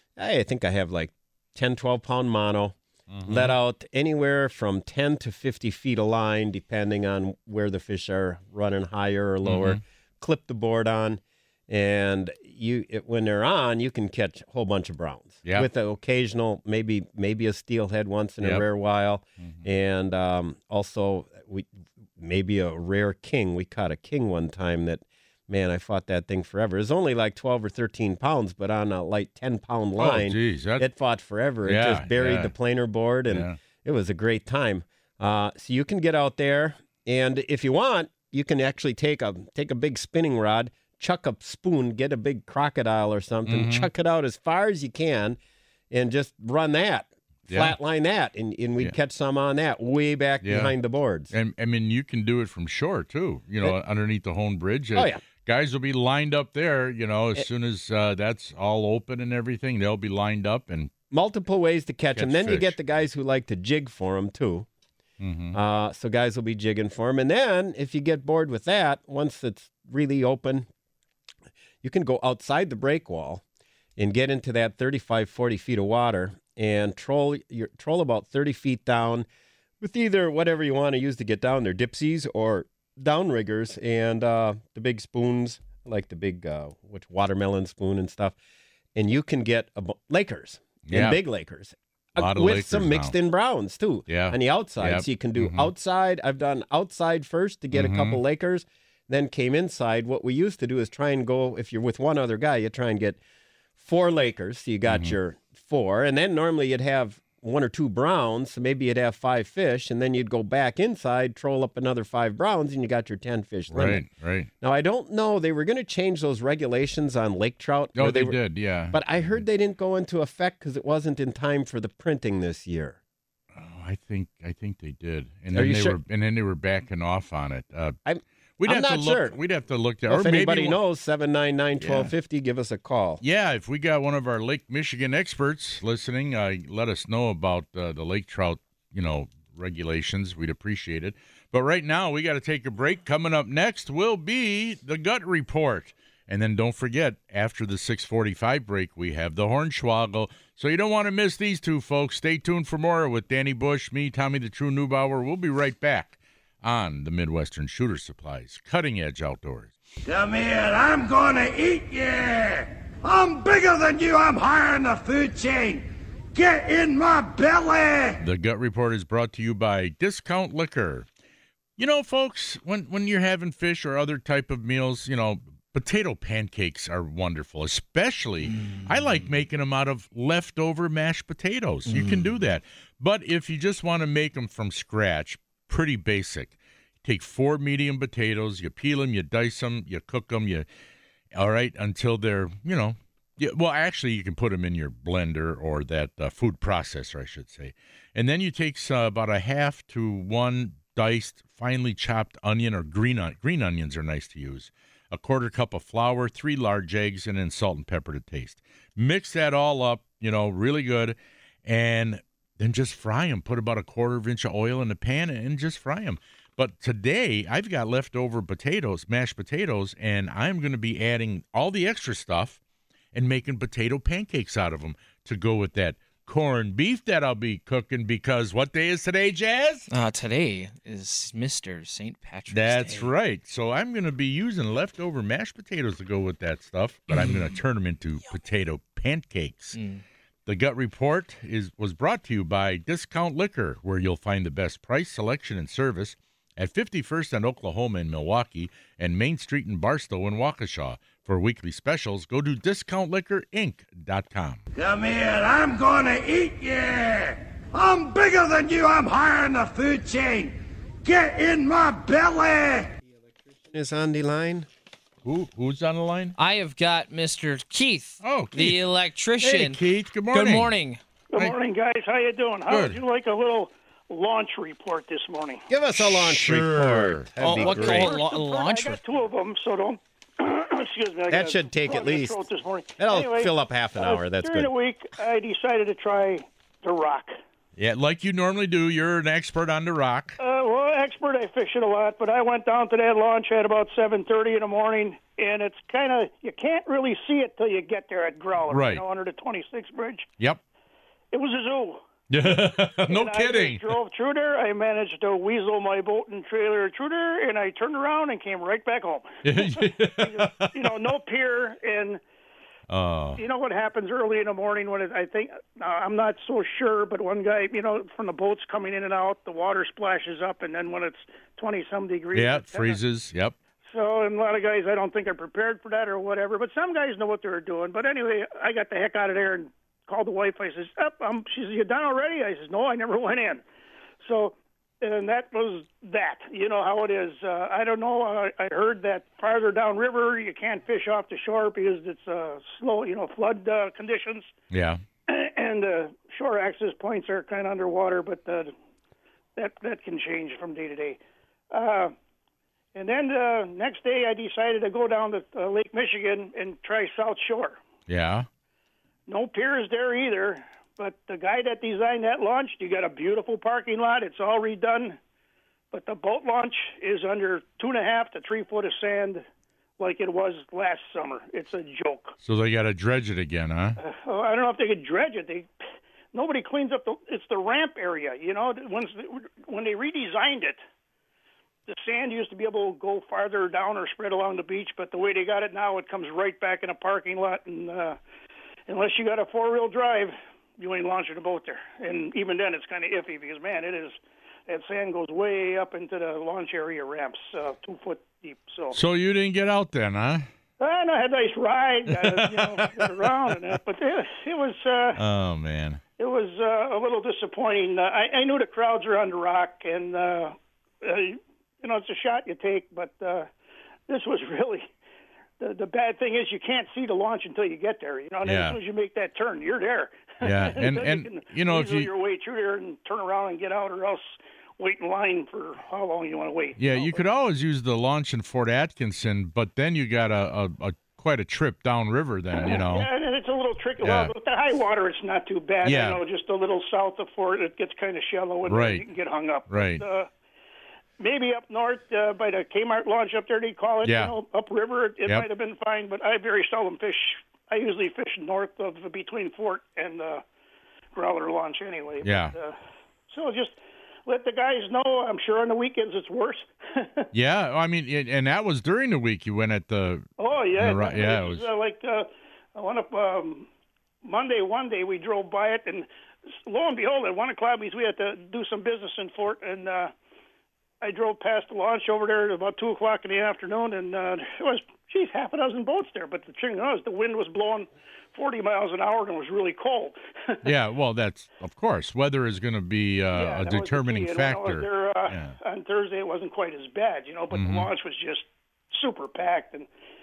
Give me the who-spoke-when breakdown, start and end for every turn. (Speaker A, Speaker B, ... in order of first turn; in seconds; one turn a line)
Speaker A: 0.2-45.4
Speaker B: 3.1-3.5
Speaker B: 9.4-9.8
Speaker B: 30.0-30.9
Speaker B: 31.6-32.5
Speaker B: 33.3-33.6
Speaker B: 43.5-43.9
Speaker A: 45.9-51.3
Speaker B: 47.5-47.8
Speaker B: 50.4-50.7
Speaker B: 51.3-60.9
Speaker A: 54.9-55.2
Speaker A: 61.1-64.7
Speaker B: 62.1-62.8
Speaker B: 65.2-65.6
Speaker A: 65.5-70.7
Speaker A: 71.8-73.4
Speaker A: 74.0-79.3
Speaker A: 79.8-88.3
Speaker A: 88.9-103.2
Speaker B: 90.9-91.2
Speaker B: 92.2-93.1
Speaker B: 94.1-95.7
Speaker B: 97.7-98.2
Speaker A: 103.8-114.0
Speaker B: 104.9-105.2
Speaker B: 113.7-114.5
Speaker A: 114.6-118.4
Speaker B: 118.0-119.0
Speaker A: 118.9-123.0
Speaker B: 123.5-128.0
Speaker A: 125.5-126.0
Speaker A: 128.1-129.4
Speaker B: 128.6-130.8
Speaker A: 130.1-133.2
Speaker B: 131.8-132.1
Speaker B: 133.2-159.7
Speaker C: 160.0-168.2
Speaker B: 168.2-171.1
Speaker B: 171.8-190.7
Speaker D: 178.5-178.9
Speaker D: 181.9-182.3
Speaker B: 191.3-222.6
Speaker B: 223.1-229.9
Speaker D: 229.9-233.1
Speaker B: 232.5-239.8
Speaker D: 237.1-237.5
Speaker D: 239.7-240.0
Speaker B: 240.4-254.6
Speaker C: 254.7-262.9
Speaker A: 263.5-264.7
Speaker B: 265.2-266.4
Speaker D: 266.4-269.8
Speaker B: 268.2-268.9
Speaker B: 269.4-270.7
Speaker D: 270.3-271.0
Speaker E: 271.3-275.6
Speaker B: 272.7-273.0
Speaker A: 275.7-278.2
Speaker B: 275.9-278.1
Speaker D: 277.4-279.0
Speaker E: 278.0-287.3
Speaker A: 281.3-282.4
Speaker A: 283.0-284.7
Speaker B: 287.8-290.4
Speaker E: 290.4-300.3
Speaker B: 298.7-299.0
Speaker E: 301.3-302.1
Speaker B: 302.3-303.9
Speaker E: 303.1-312.2
Speaker B: 309.4-310.9
Speaker B: 312.9-313.4
Speaker E: 313.4-323.0
Speaker B: 322.3-323.6
Speaker E: 323.9-333.6
Speaker E: 334.2-344.5
Speaker B: 344.7-345.0
Speaker E: 345.3-348.7
Speaker E: 349.6-351.2
Speaker E: 351.7-352.1
Speaker E: 352.9-357.8
Speaker B: 358.1-358.5
Speaker E: 359.3-365.2
Speaker E: 365.9-369.4
Speaker E: 370.0-372.3
Speaker B: 372.4-374.0
Speaker E: 374.0-375.7
Speaker E: 376.3-380.8
Speaker E: 381.9-388.2
Speaker E: 388.9-399.0
Speaker B: 398.9-400.5
Speaker E: 400.8-405.2
Speaker B: 402.1-403.3
Speaker B: 405.1-406.0
Speaker E: 406.2-413.5
Speaker E: 414.1-414.9
Speaker E: 415.6-427.2
Speaker B: 418.4-418.8
Speaker B: 420.4-422.1
Speaker B: 426.8-433.1
Speaker E: 432.6-440.3
Speaker B: 434.0-434.3
Speaker B: 435.8-436.2
Speaker B: 438.7-439.1
Speaker B: 439.7-440.0
Speaker E: 441.2-450.4
Speaker B: 444.0-444.3
Speaker E: 451.1-452.8
Speaker B: 452.2-452.5
Speaker E: 453.3-457.3
Speaker B: 457.3-461.7
Speaker E: 460.4-463.7
Speaker E: 464.2-466.1
Speaker E: 466.6-470.1
Speaker E: 471.0-480.6
Speaker B: 480.6-485.5
Speaker E: 483.3-489.9
Speaker B: 487.5-487.9